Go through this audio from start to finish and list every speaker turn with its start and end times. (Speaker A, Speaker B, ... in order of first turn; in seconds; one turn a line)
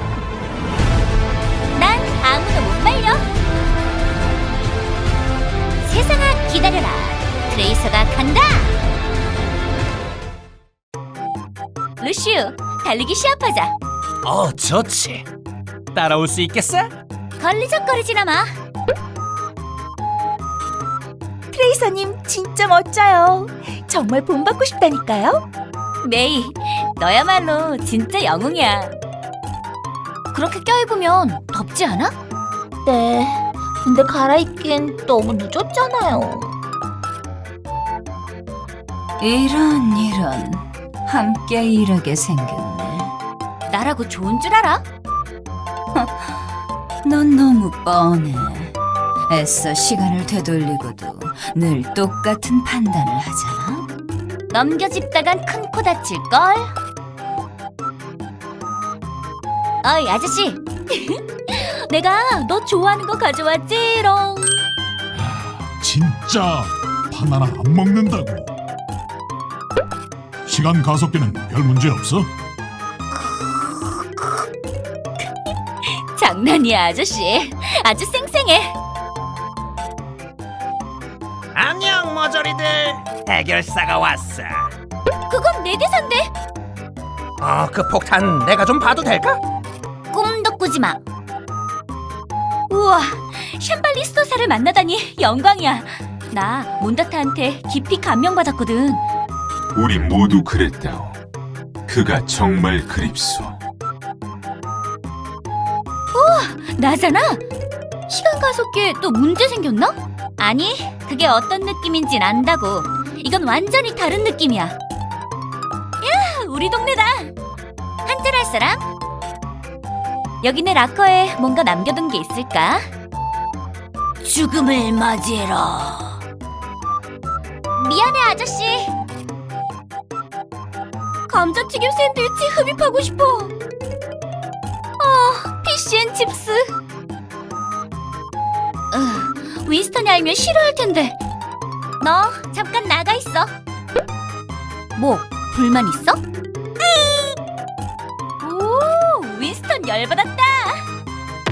Speaker A: 1.7-3.2
Speaker A: 5.8-8.7
Speaker A: 12.0-13.7
Speaker B: 14.2-15.2
Speaker B: 15.9-16.9
Speaker A: 17.4-18.5
Speaker A: 26.0-28.9
Speaker A: 30.3-32.1
Speaker C: 32.8-36.5
Speaker D: 39.2-43.1
Speaker A: 43.7-44.8
Speaker D: 47.0-48.7
Speaker D: 49.3-53.8
Speaker A: 54.5-56.7
Speaker A: 59.8-64.6
Speaker E: 65.1-68.5
Speaker E: 70.5-72.3
Speaker A: 73.2-74.3
Speaker A: 75.8-78.8
Speaker B: 81.5-84.4
Speaker A: 85.3-86.3
Speaker B: 87.4-89.4
Speaker A: 90.1-91.0
Speaker A: 92.7-99.0
Speaker F: 99.7-101.2
Speaker F: 101.9-103.6
Speaker A: 106.1-107.4
Speaker A: 108.1-114.8
Speaker A: 116.0-117.3
Speaker A: 118.0-118.8
Speaker A: 120.4-122.8
Speaker A: 124.2-126.2
Speaker A: 127.8-128.9
Speaker A: 131.3-133.5
Speaker A: 135.0-136.7
Speaker A: 138.9-141.2
Speaker A: 142.0-143.5
Speaker A: 144.9-146.2
Speaker A: 146.8-147.3
Speaker A: 148.4-150.8